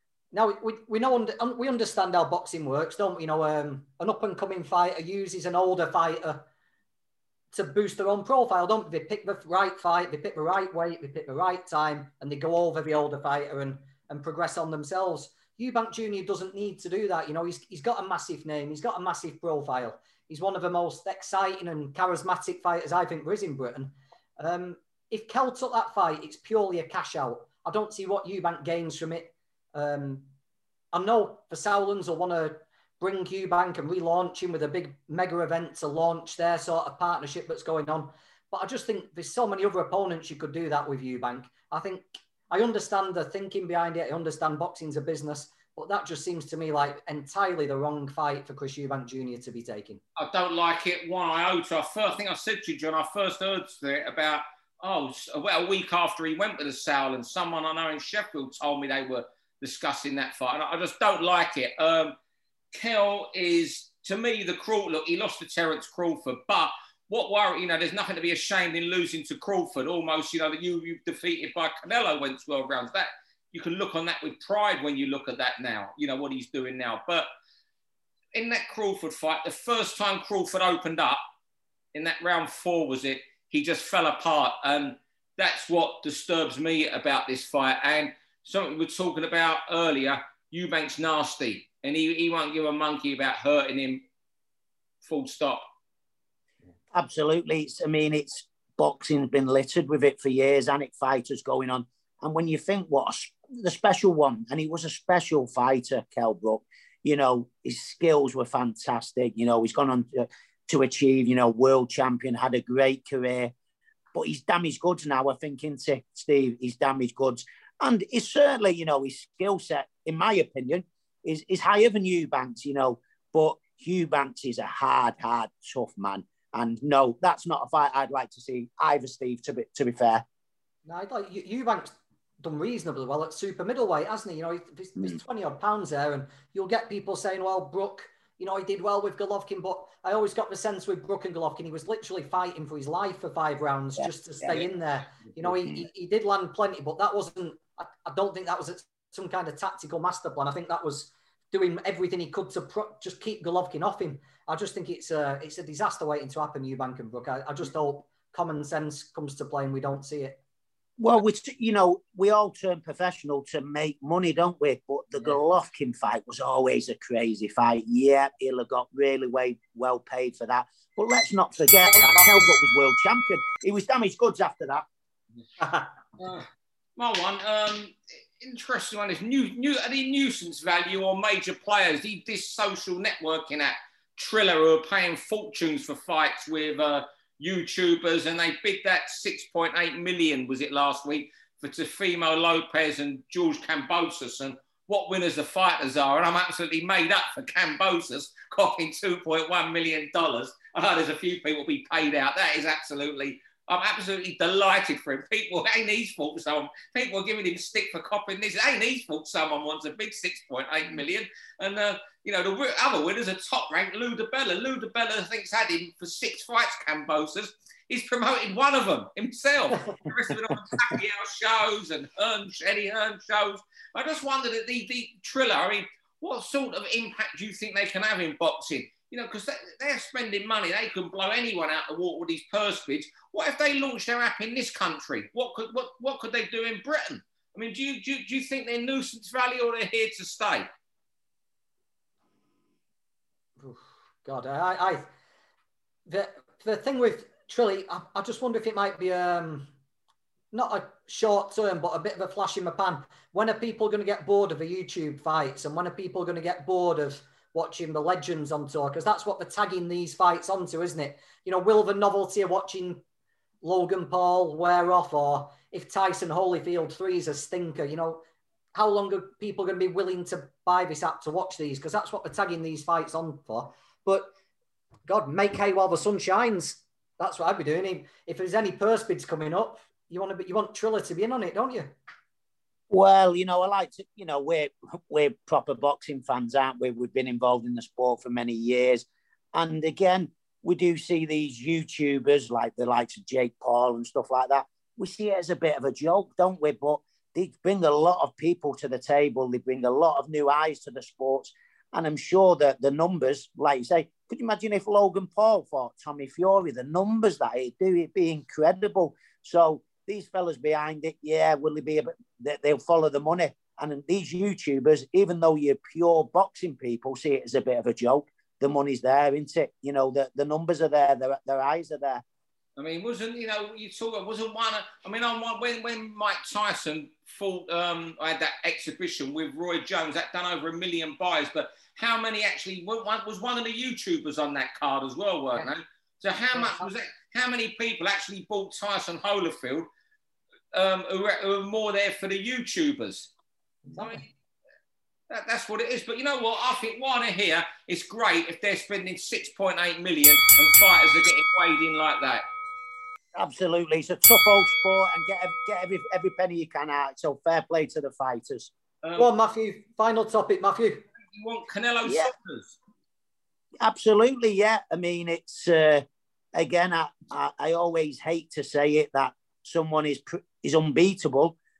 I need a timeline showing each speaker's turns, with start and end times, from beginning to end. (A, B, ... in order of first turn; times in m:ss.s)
0:00.3-0:06.4 A
0:07.5-0:30.3 A
0:30.9-0:50.0 A
0:50.2-1:02.2 B
1:02.7-1:17.3 B
1:18.3-1:21.2 B
1:21.9-1:34.0 B
1:35.0-1:35.6 B
1:36.9-1:53.5 C
1:54.1-2:10.2 C
2:10.8-2:40.4 A
2:24.0-2:24.6 C
2:25.4-2:25.8 C
2:41.0-2:54.8 C
2:51.9-2:52.3 B
2:55.6-2:55.9 A
2:56.2-2:56.4 B
2:57.0-4:00.7 B
4:03.6-4:05.0 A
4:06.1-4:09.7 A
4:10.5-4:23.0 A
4:23.6-4:28.2 A
4:28.7-4:34.3 A
4:35.1-4:41.9 A
4:42.9-5:22.2 C
5:22.8-5:39.9 B
5:36.5-5:36.9 A
5:40.7-5:43.3 B
5:43.9-5:44.2 A
5:44.0-5:44.3 B
5:45.3-5:52.4 B
5:53.4-5:58.7 C
5:59.0-5:59.3 B
5:59.2-6:01.0 A
6:01.3-6:02.8 B
6:02.0-6:02.3 C
6:03.8-6:11.6 C